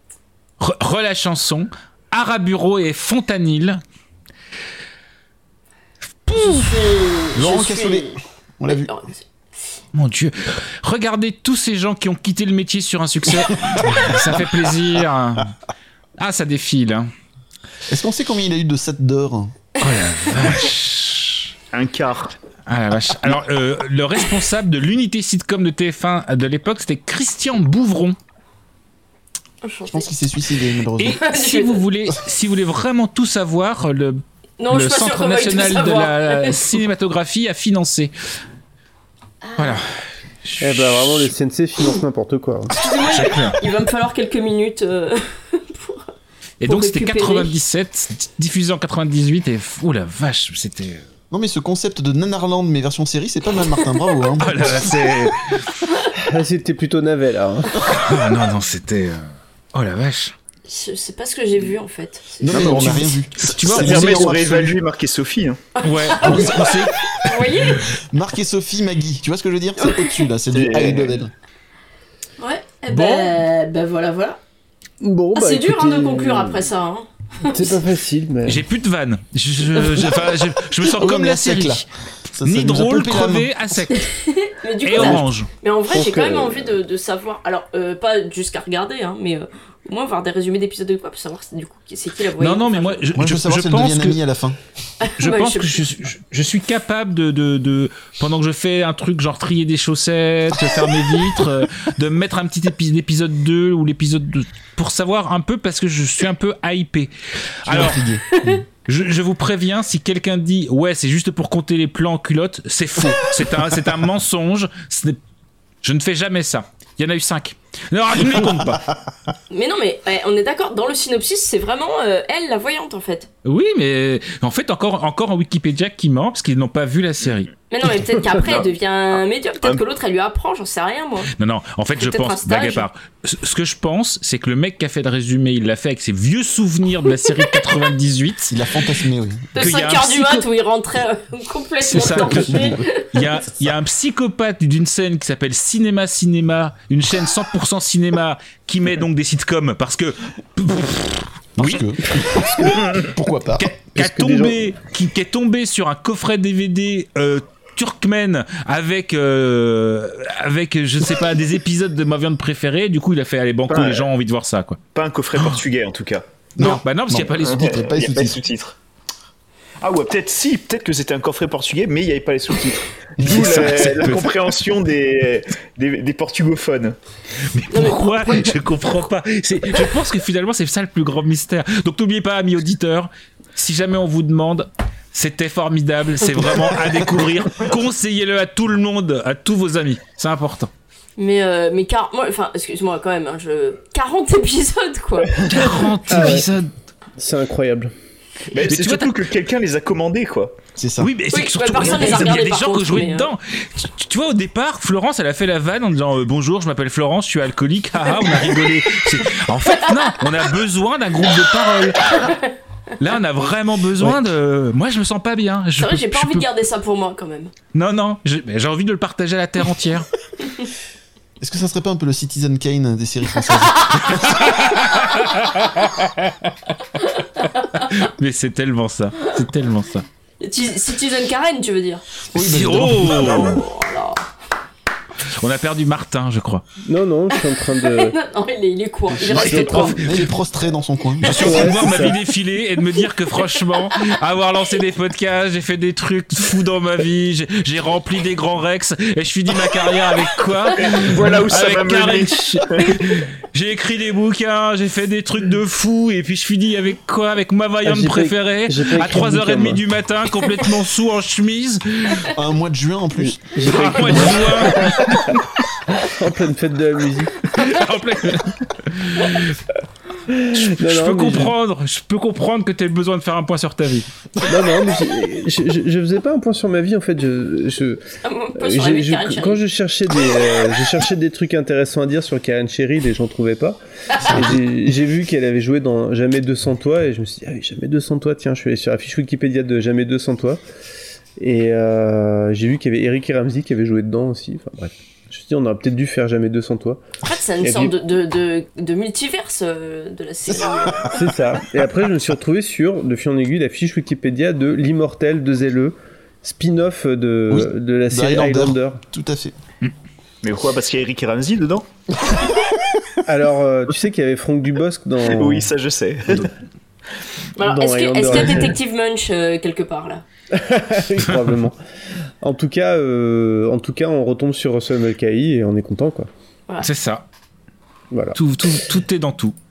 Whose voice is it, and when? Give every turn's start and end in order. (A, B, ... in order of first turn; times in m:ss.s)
0:00.6-0:03.8 A
0:06.3-0:06.7 A
0:06.3-0:08.2 B
0:07.3-0:08.9 C
0:08.7-0:09.3 B
0:09.9-0:15.5 A
0:16.2-0:17.1 A
0:17.9-0:19.5 C
0:19.8-0:21.5 A
0:21.7-0:22.3 D
0:22.7-0:28.2 A
0:29.6-0:30.1 B
0:29.9-0:31.2 C
0:31.0-0:38.1 A
0:31.0-0:31.8 B
0:34.6-0:36.8 B
0:39.6-0:41.3 A
0:40.6-0:42.7 E
0:42.7-0:46.1 B
0:43.1-0:43.6 A
0:46.6-0:51.0 A
0:46.6-0:47.5 B
0:51.3-0:55.0 C
0:54.4-0:55.6 A
0:56.2-0:57.9 E
0:57.9-1:00.3 A
1:00.6-1:03.1 B
1:02.4-1:04.8 C
1:02.5-1:05.6 D
1:03.4-1:04.3 A
1:05.8-1:07.8 B
1:05.8-1:07.4 A
1:06.2-1:06.7 C
1:08.1-1:11.3 C
1:10.5-1:11.2 D
1:12.4-1:14.4 B
1:12.9-1:13.4 A
1:15.0-1:16.7 E
1:15.3-1:17.8 B
1:17.5-1:18.6 E
1:18.4-1:21.9 A
1:20.9-1:23.5 C
1:22.4-1:24.1 A
1:23.9-1:33.0 B
1:24.8-1:25.5 A
1:25.9-1:26.8 E
1:32.4-1:34.2 A
1:33.1-1:34.6 C
1:35.0-1:35.8 B
1:35.2-1:47.1 A
1:47.6-1:48.0 A
1:47.6-1:48.4 C
1:48.9-1:55.2 A
1:55.8-1:58.8 A
1:59.5-2:03.3 B
2:03.4-2:07.5 A
2:07.7-2:11.3 B
2:08.4-2:08.7 D
2:11.4-2:18.6 A
2:12.0-2:12.9 B
2:17.2-2:17.6 B
2:18.5-2:19.5 C
2:19.6-2:23.2 B
2:19.6-2:20.5 A
2:21.8-2:32.7 A
2:31.6-2:33.7 C
2:33.6-2:44.8 A
2:33.9-2:34.7 E
2:43.7-2:44.1 D
2:44.9-2:46.2 D
2:46.6-2:47.8 A
2:46.6-2:48.4 C
2:47.4-2:48.8 D
2:49.8-2:57.0 D
2:53.2-2:54.3 A
2:53.2-2:53.7 C
2:57.5-3:10.7 A
2:57.7-2:58.5 B
3:11.2-3:15.3 B
3:15.5-3:16.7 A
3:16.1-3:16.5 E
3:17.2-3:17.9 E
3:18.5-3:20.6 D
3:18.7-3:19.2 A
3:20.8-3:21.1 C
3:21.0-3:32.3 A
3:21.3-3:23.3 B
3:28.2-3:29.0 B
3:29.8-3:30.2 B
3:32.0-3:32.5 B
3:33.0-3:36.5 A
3:35.8-3:37.5 B
3:37.7-3:40.1 A
3:41.4-3:44.4 C
3:44.3-3:46.3 A
3:47.8-3:50.0 A
3:50.4-3:52.0 B
3:52.3-3:53.6 C
3:52.3-3:53.6 A
3:53.2-3:54.2 B
3:55.4-3:56.6 A
3:56.8-3:58.1 E
3:57.6-3:59.9 B
3:59.1-4:02.0 C
3:59.3-4:00.0 E
3:59.4-4:00.3 A
4:01.2-4:22.3 A
4:01.3-4:02.2 E
4:10.8-4:13.0 D
4:17.8-4:19.8 E
4:22.3-4:23.5 C
4:23.2-4:25.0 E
4:23.6-4:25.4 A
4:26.0-4:27.4 E
4:27.6-4:29.5 A
4:30.3-4:31.6 E
4:30.6-4:34.0 A
4:34.4-4:38.0 E
4:38.2-4:39.6 B
4:38.6-4:50.6 E
4:44.2-4:44.6 C
4:51.4-4:57.0 E
4:57.2-5:01.2 B
4:57.6-4:58.0 E
5:01.1-5:09.0 E
5:07.5-5:09.6 C
5:10.4-5:11.9 D
5:13.3-5:15.7 E
5:15.2-5:16.5 D
5:17.6-5:20.2 B
5:17.6-5:18.8 E
5:20.5-5:21.8 E
5:22.4-5:26.3 E
5:26.8-5:27.2 A
5:28.1-5:28.4 E
5:28.3-5:29.6 A